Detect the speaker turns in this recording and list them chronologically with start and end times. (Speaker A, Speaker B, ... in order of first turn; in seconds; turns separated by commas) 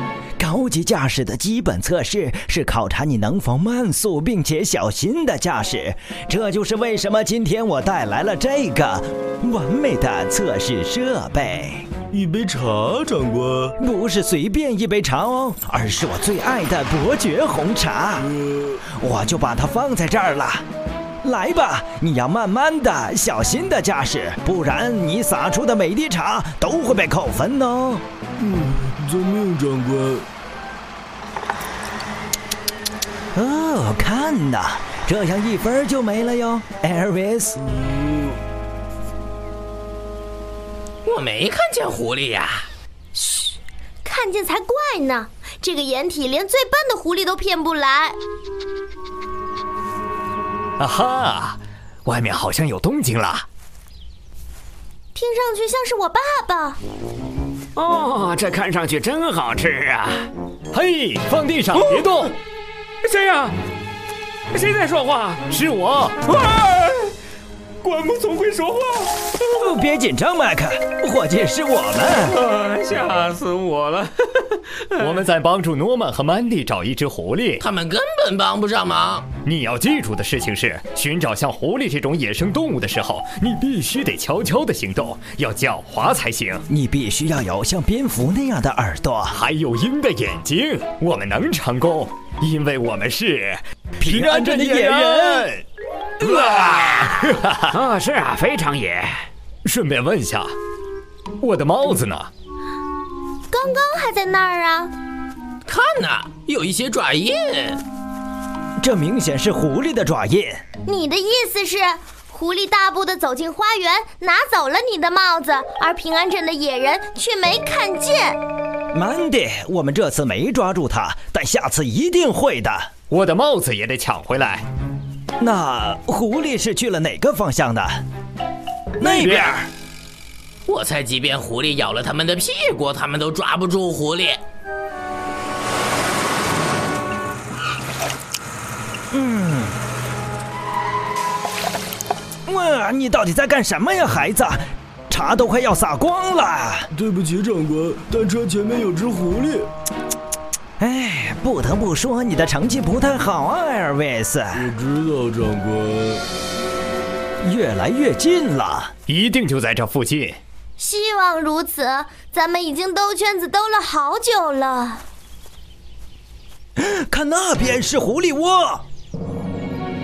Speaker A: 0.4-11.9, Speaker B: 12.1-13.7, Speaker A: 13.8-18.3, Speaker B: 18.3-18.8, Speaker A: 18.9-20.6, Speaker A: 21.2-28.0, Speaker B: 28.4-30.3, Speaker A: 33.3-37.6, Speaker B: 37.7-38.4, Speaker C: 41.0-42.7, Speaker D: 43.1-48.2, Speaker E: 50.8-53.5, Speaker D: 55.1-56.8, Speaker F: 57.7-60.3, Speaker E: 60.7-62.3, Speaker F: 63.0-63.5, Speaker F: 64.5-65.4, Speaker E: 65.5-66.2, Speaker F: 66.4-67.0, Speaker F: 67.8-69.1, Speaker A: 69.4-72.4, Speaker F: 72.4-74.1, Speaker E: 75.0-77.6, Speaker C: 77.6-79.3, Speaker E: 79.4-86.6, Speaker A: 86.7-89.4, Speaker E: 89.3-95.6, Speaker A: 94.0-95.5, Speaker C: 96.2-96.9, Speaker E: 96.6-97.6, Speaker F: 97.7-99.3, Speaker E: 99.6-100.5, Speaker E: 101.4-102.3, Speaker D: 103.5-104.9, Speaker C: 105.7-107.8, Speaker A: 108.8-110.6, Speaker D: 110.8-118.4, Speaker A: 118.9-122.9, Speaker E: 123.1-124.7, Speaker A: 125.4-128.0, Speaker A: 129.0-129.7, Speaker E: 129.0-129.4, Speaker C: 130.7-134.4, Speaker A: 139.1-139.8, Speaker A: 142.5-146.9, Speaker B: 146.9-149.7, Speaker A: 150.8-154.7, Speaker B: 154.5-156.2, Speaker A: 157.4-158.9, Speaker E: 159.1-160.4, Speaker D: 160.8-165.0, Speaker A: 166.8-168.8